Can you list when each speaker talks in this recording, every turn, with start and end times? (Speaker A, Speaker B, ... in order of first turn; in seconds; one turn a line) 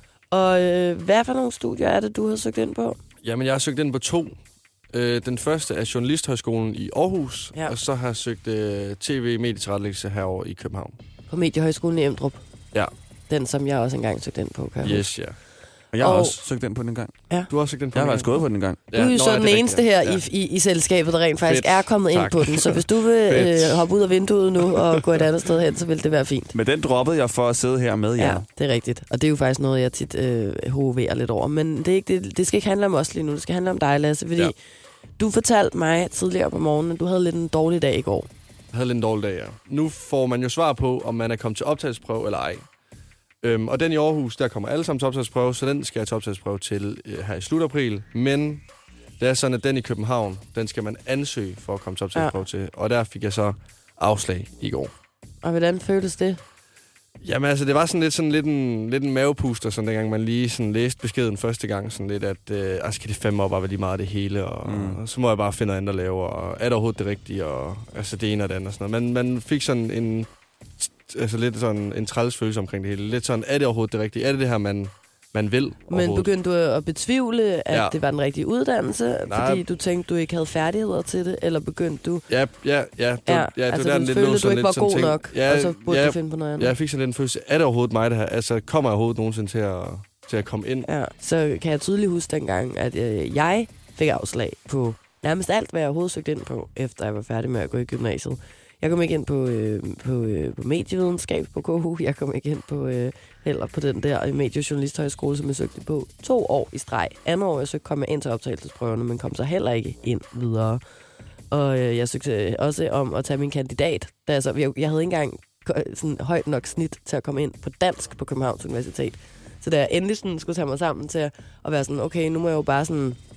Speaker A: 0.3-3.0
Speaker B: 3.2-4.4
Speaker B: 4.9-11.0
Speaker A: 11.3-12.4
Speaker A: 13.3-15.1
Speaker B: 14.8-15.4
Speaker C: 15.9-17.1
Speaker A: 16.0-16.4
Speaker B: 17.5-18.4
Speaker C: 17.9-18.8
Speaker B: 18.9-20.2
Speaker A: 18.9-26.5
Speaker B: 21.4-23.9
Speaker B: 24.7-25.2
Speaker C: 26.5-28.4
Speaker A: 28.2-34.5
Speaker A: 35.2-38.3
Speaker B: 38.7-42.7
Speaker B: 43.4-48.6
Speaker B: 49.2-54.9
Speaker A: 55.4-56.4
Speaker B: 57.2-76.3
Speaker C: 64.6-65.0
Speaker A: 75.9-82.2
Speaker B: 77.7-78.0
Speaker B: 79.3-79.6
Speaker B: 82.3-90.9
Speaker A: 83.2-86.7
Speaker A: 90.8-110.8
Speaker A: 111.5-123.2